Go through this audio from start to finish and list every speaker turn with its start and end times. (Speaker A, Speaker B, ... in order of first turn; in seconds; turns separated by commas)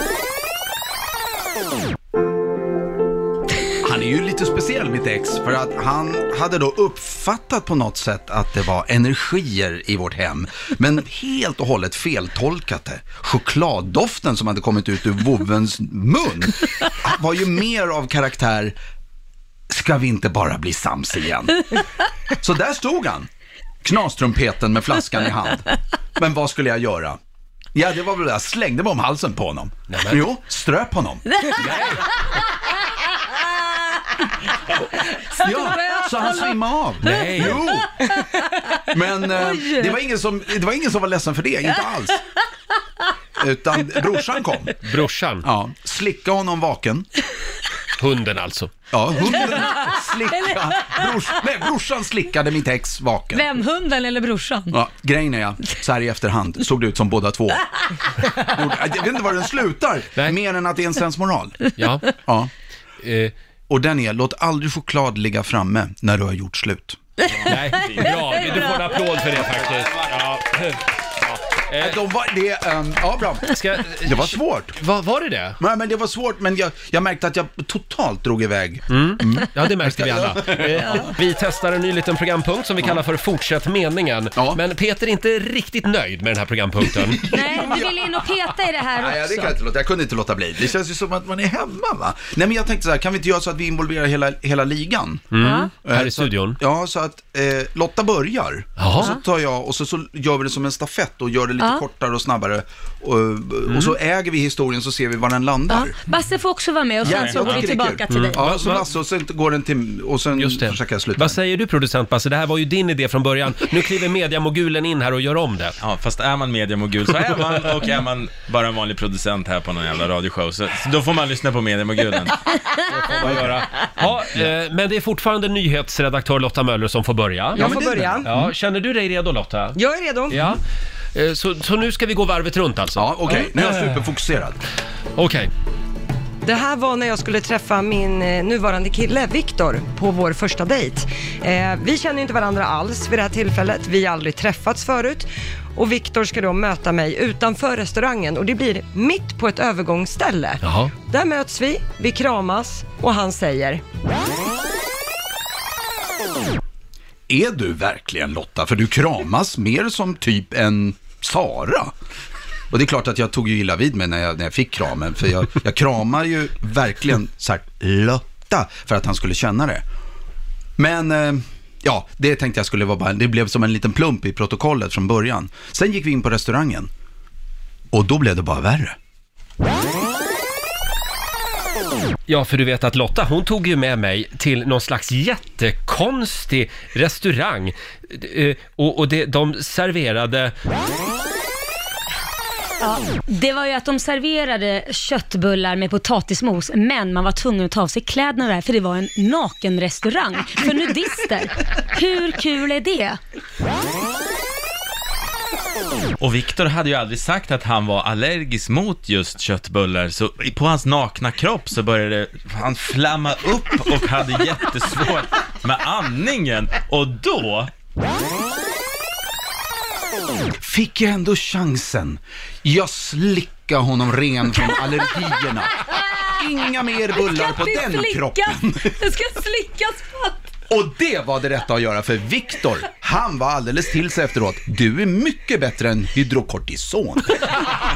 Speaker A: 3.8-18.7, Speaker A: 19.7-21.8, Speaker A: 22.4-23.3, Speaker A: 23.8-27.2, Speaker A: 27.7-31.9, Speaker B: 29.9-30.2, Speaker B: 31.6-32.0, Speaker C: 33.0-33.9, Speaker C: 35.0-36.5, Speaker A: 35.4-38.0, Speaker B: 37.0-37.6, Speaker C: 38.0-38.6, Speaker A: 38.9-42.2, Speaker C: 39.3-39.9, Speaker A: 43.4-44.8, Speaker B: 44.8-45.5, Speaker A: 45.4-47.1, Speaker B: 47.9-48.7, Speaker A: 48.9-53.5, Speaker C: 53.3-54.8, Speaker A: 54.7-61.6, Speaker B: 61.8-62.1, Speaker A: 62.2-62.5, Speaker B: 63.0-63.3, Speaker A: 63.7-67.0, Speaker D: 67.3-68.7, Speaker B: 67.4-72.0, Speaker D: 69.4-70.0, Speaker A: 71.7-74.8, Speaker B: 73.5-75.6, Speaker A: 75.6-81.1, Speaker B: 78.9-87.3, Speaker A: 84.3-84.6, Speaker A: 87.2-88.3, Speaker C: 87.3-89.5, Speaker A: 88.9-106.0, Speaker B: 95.3-96.6, Speaker C: 95.4-95.7, Speaker B: 98.8-99.2, Speaker B: 103.7-103.9, Speaker C: 105.7-108.4, Speaker D: 107.0-107.7, Speaker A: 107.0-111.4, Speaker B: 108.1-108.8, Speaker B: 110.3-115.8, Speaker D: 115.8-122.4, Speaker B: 122.9-127.6, Speaker A: 123.2-123.6, Speaker E: 127.5-128.3, Speaker A: 127.6-128.5, Speaker B: 128.2-129.8, Speaker E: 129.7-130.5, Speaker B: 130.3-130.6, Speaker B: 131.1-133.8, Speaker A: 132.9-134.6, Speaker B: 135.2-135.5, Speaker E: 136.4-153.8, Speaker B: 150.6-150.9, Speaker A: 157.3-161.9, Speaker A: 162.7-169.8, Speaker A: 170.8-176.9, Speaker A: 177.9-178.9, Speaker B: 182.3-190.5, Speaker C: 192.8-203.2, Speaker D: 206.2-217.7, Speaker A: 220.6-228.9, Speaker C: 227.2-228.5, Speaker C: 229.1-230.3, Speaker A: 230.7-237.6